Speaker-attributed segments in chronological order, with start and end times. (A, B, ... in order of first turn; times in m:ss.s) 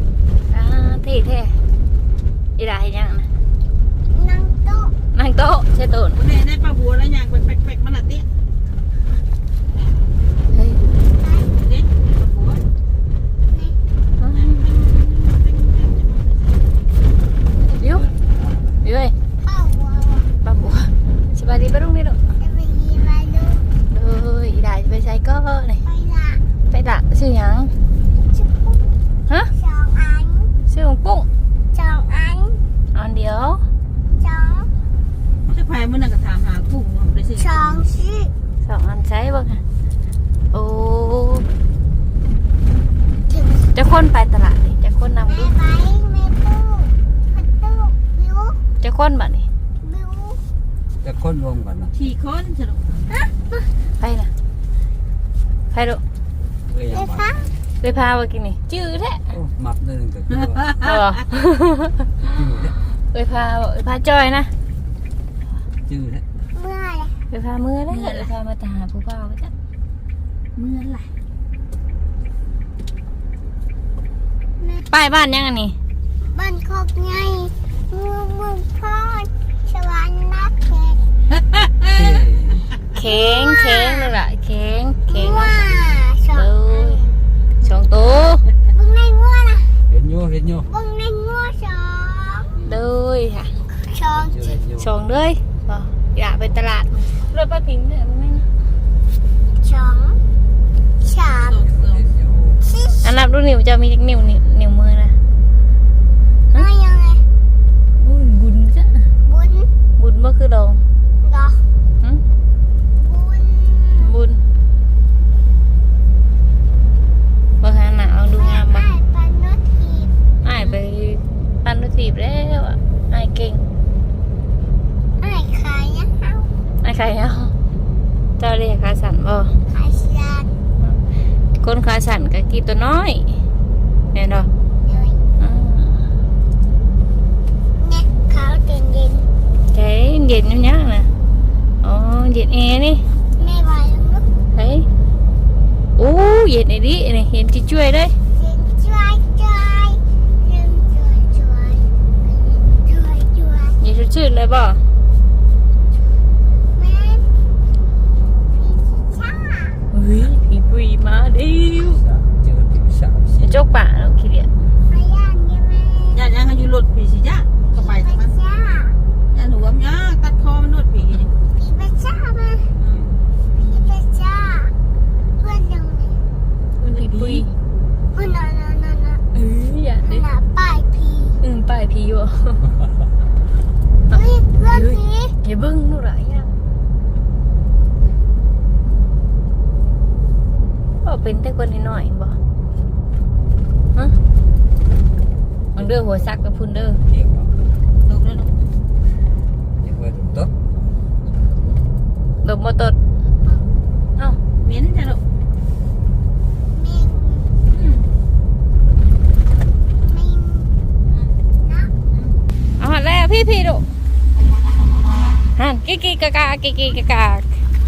0:00.5-0:01.6 A
0:02.6-0:03.3 A
0:04.1-0:04.9 B
0:05.1-0:06.2 A
0:06.2-0:08.3 C
0:10.5-0:10.8 A
0:11.2-0:11.6 B
0:11.6-0:12.6 C
0:13.5-0:13.8 B
0:14.2-0:14.6 A
0:14.3-0:16.3 C
0:17.7-0:18.1 A
0:18.8-0:19.1 A
0:19.4-0:20.3 B
0:20.4-0:22.2 A
0:22.4-0:23.7 B
0:23.9-0:25.8 A
0:25.8-0:26.4 B
0:26.7-0:27.7 A
0:28.3-0:28.8 B
0:29.5-0:30.5 B
0:30.7-0:31.3 A
0:31.7-0:32.6 B
0:32.9-0:33.6 A
0:34.2-0:34.7 B
0:35.5-0:37.9 C
0:37.4-0:38.3 B
0:38.6-0:39.6 A
0:40.5-0:41.4 A
0:43.3-0:43.7 B
0:43.7-0:45.5 A
0:45.3-0:48.6 B
0:48.8-0:49.5 A
0:49.8-0:50.4 B
0:51.0-0:51.9 D
0:51.9-0:53.0 C
0:53.1-0:53.7 B
0:54.0-0:54.3 A
0:55.7-0:56.0 A
0:56.7-0:57.3 D
0:56.9-0:57.5 B
0:57.8-0:59.2 A
0:59.3-1:00.6 D
1:00.4-1:01.0 C
1:00.8-1:01.9 A
1:02.2-1:02.8 D
1:03.1-1:04.5 A
1:05.9-1:06.2 D
1:06.5-1:07.2 B
1:07.3-1:09.5 A
1:07.9-1:08.3 C
1:10.6-1:11.1 C
1:14.6-1:14.9 B
1:14.9-1:15.8 A
1:16.2-1:21.0 B
1:21.8-1:22.7 D
1:22.9-1:25.7 A
1:23.0-1:24.1 B
1:25.1-1:27.2 B
1:26.3-1:27.0 A
1:27.6-1:28.4 A
1:28.7-1:29.8 B
1:29.9-1:30.7 D
1:30.7-1:32.7 B
1:32.6-1:33.5 A
1:33.9-1:34.6 B
1:34.1-1:34.9 D
1:34.8-1:38.5 A
1:39.6-1:40.2 B
1:41.0-1:41.6 B
1:41.4-1:42.0 C
1:41.6-1:42.6 D
1:42.6-1:43.1 B
1:43.0-1:45.2 A
1:46.5-1:47.2 B
1:48.0-1:49.1 A
1:49.2-1:49.7 B
1:50.0-1:50.8 A
1:51.2-1:51.7 B
1:53.0-1:54.2 B
1:54.0-1:54.4 A
1:57.6-1:58.9 A
1:58.4-2:00.1 B
2:00.4-2:03.6 A
2:05.2-2:06.5 B
2:06.8-2:07.5 A
2:08.4-2:09.5 A
2:09.7-2:10.5 B
2:11.6-2:13.4 A
2:14.1-2:14.5 A
2:14.8-2:15.3 B
2:15.4-2:16.1 A
2:17.8-2:19.3 B
2:19.7-2:21.1 A
2:21.8-2:23.0 A
2:23.4-2:24.3 B
2:24.6-2:24.9 A
2:26.0-2:28.1 A
2:28.3-2:33.8 B
2:33.8-2:34.8 A
2:36.8-2:37.3 B
2:38.5-2:39.9 B
2:39.9-2:42.0 A
2:41.8-2:43.6 D
2:43.4-2:44.5 A
2:44.9-2:46.2 B
2:46.1-2:48.4 C
2:47.7-2:49.0 B
2:49.3-2:51.3 C
2:51.6-2:52.7 B
2:53.6-2:54.7 B
2:55.4-2:56.2 B
2:56.8-2:57.5 A
2:56.8-2:57.5 C
2:58.1-2:59.2 B
2:59.3-3:00.2 A
3:00.0-3:01.4 B
3:01.4-3:02.6 A
3:04.1-3:05.4 B
3:04.1-3:06.5 A
3:11.0-3:12.4 A
3:15.8-3:17.0 A
3:17.1-3:17.5 D
3:18.1-3:18.5 C
3:19.8-3:20.5 D
3:22.4-3:23.0 A
3:24.6-3:25.2 C
3:26.7-3:27.5 B
3:27.7-3:28.1 C
3:30.0-3:30.7 B
3:31.6-3:31.9 B
3:32.1-3:32.4 C
3:32.8-3:33.8 A
3:35.6-3:37.5 A